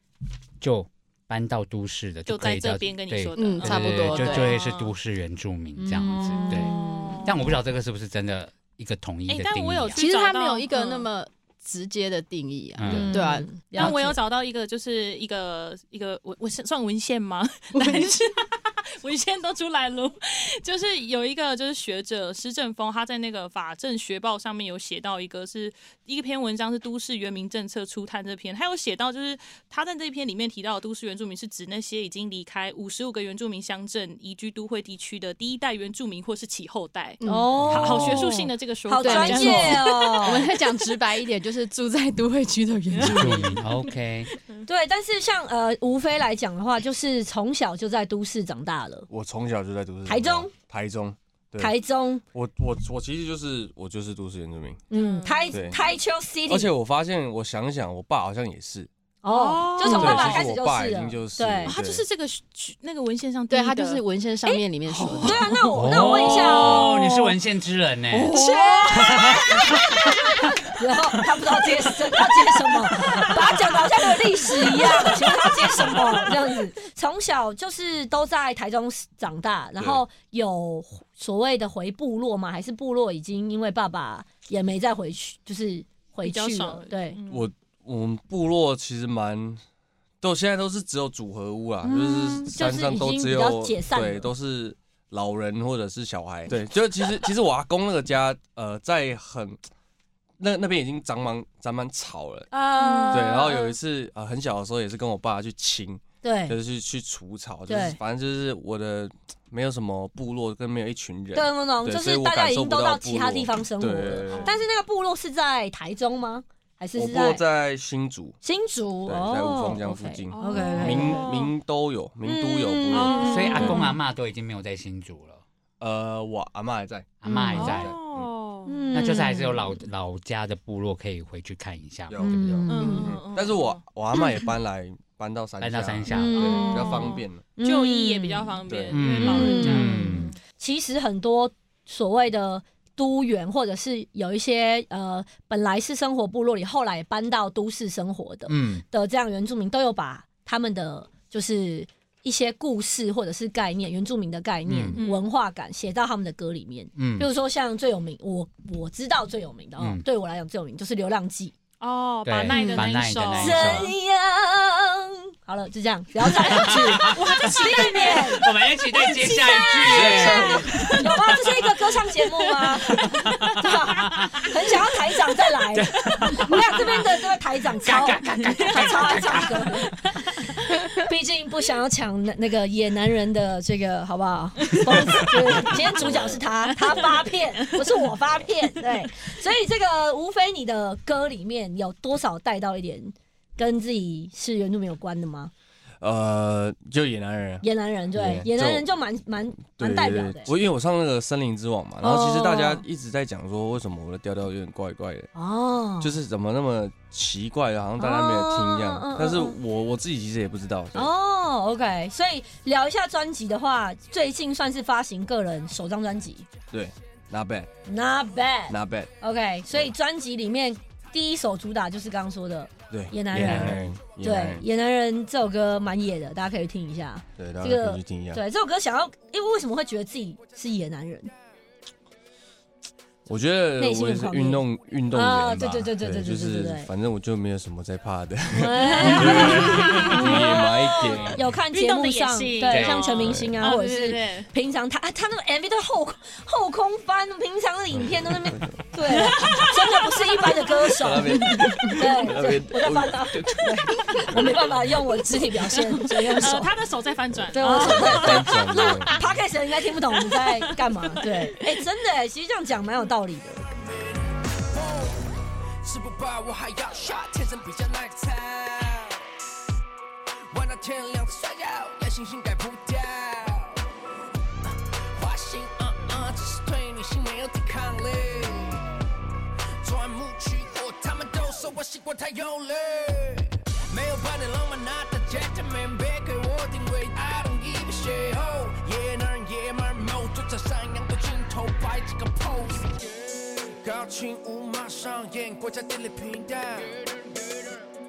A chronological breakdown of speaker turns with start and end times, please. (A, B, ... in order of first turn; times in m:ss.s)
0:00.6-0:10.0 A
0:02.2-0:04.9 B
0:03.4-0:04.5 C
0:05.8-0:07.4 C
0:06.1-0:07.4 B
0:09.3-0:11.1 B
0:09.9-0:14.2 C
0:12.8-0:13.2 A
0:12.9-0:13.6 D
0:13.7-0:41.0 B
0:17.7-0:18.1 C
0:37.2-0:38.5 C
0:37.2-0:40.5 D
0:37.6-0:38.0 A
0:39.0-0:43.9 C
0:42.9-0:43.5 B
0:42.9-0:44.3 A
0:44.6-0:49.1 D
0:49.1-0:51.7 E
0:50.0-0:50.5 D
0:51.6-0:52.2 D
0:52.3-0:54.8 E
0:54.9-0:56.7 D
0:54.9-0:55.9 B
0:55.5-0:55.8 E
0:56.5-0:58.9 E
0:59.2-1:01.8 D
0:59.2-1:00.4 B
0:59.8-1:02.0 E
1:01.6-1:04.0 B
1:03.5-1:05.5 C
1:04.4-1:07.3 D
1:05.0-1:08.4 A
1:06.3-1:06.8 B
1:08.1-1:27.2 D
1:08.3-1:10.4 B
1:08.9-1:09.9 A
1:13.0-1:13.3 A
1:26.2-1:27.5 B
1:27.3-1:29.6 E
1:30.2-1:39.6 E
1:31.8-1:34.3 D
1:40.4-1:42.5 E
1:42.5-1:43.7 D
1:42.8-1:43.3 B
1:43.1-1:54.5 E
1:46.2-1:46.6 D
1:47.7-1:48.0 D
1:51.3-1:57.4 D
1:57.0-1:58.4 E
1:58.4-2:01.3 D
1:59.0-2:03.8 E
2:00.3-2:01.5 B
2:02.2-2:03.9 D
2:02.9-2:03.9 B
2:03.2-2:05.4 A
2:05.8-2:08.3 E
2:07.2-2:07.9 A
2:07.3-2:07.8 D
2:07.3-2:08.8 B
2:08.6-2:09.8 D
2:08.9-2:12.4 A
2:12.1-2:17.4 E
2:12.2-2:13.1 D
2:12.7-2:13.8 B
2:15.6-2:16.8 A
2:16.1-2:41.5 D
2:16.2-2:20.4 B
2:18.7-2:19.0 E
2:18.9-2:20.4 A
2:28.5-2:28.8 A
2:34.7-2:35.0 A
2:35.0-2:35.3 B
2:37.0-2:37.3 A
2:41.8-2:43.9 B
2:42.2-2:43.9 A
2:42.5-2:48.4 D
2:46.2-2:51.9 A
2:47.0-2:50.8 B
2:49.8-2:50.8 E
2:50.9-2:59.9 D
2:52.6-2:55.1 A
2:55.7-2:57.2 A
2:57.8-3:00.0 A
2:58.4-3:00.3 B
3:00.6-3:15.5 D
3:04.7-3:07.9 B
3:05.8-3:06.4 E
3:16.0-3:18.8 E
3:17.6-3:20.5 D
3:19.8-3:25.3 E
3:22.0-3:22.8 D
3:25.3-3:26.1 D
3:26.0-3:31.1 E
3:28.0-3:29.6 D
3:30.9-3:36.5 D
3:36.7-3:37.7 E
3:37.8-3:51.3 D
3:38.7-3:39.1 E
3:42.9-3:44.6 E
3:43.4-3:43.8 A
3:47.4-3:48.4 E
3:53.3-4:01.4 E
3:53.8-3:56.9 D
3:58.5-4:16.7 D
3:58.9-4:04.5 B
4:02.7-4:03.3 A
4:03.1-4:03.6 E
4:07.9-4:09.7 E
4:09.1-4:10.5 B
4:10.7-4:15.0 E
4:15.7-4:19.3 B
4:17.5-4:23.6 D
4:17.6-4:19.2 E
4:19.9-4:21.8 B
4:23.7-4:29.2 F
4:30.5-4:33.9 F
4:35.1-4:38.9 F
4:39.8-4:57.9 F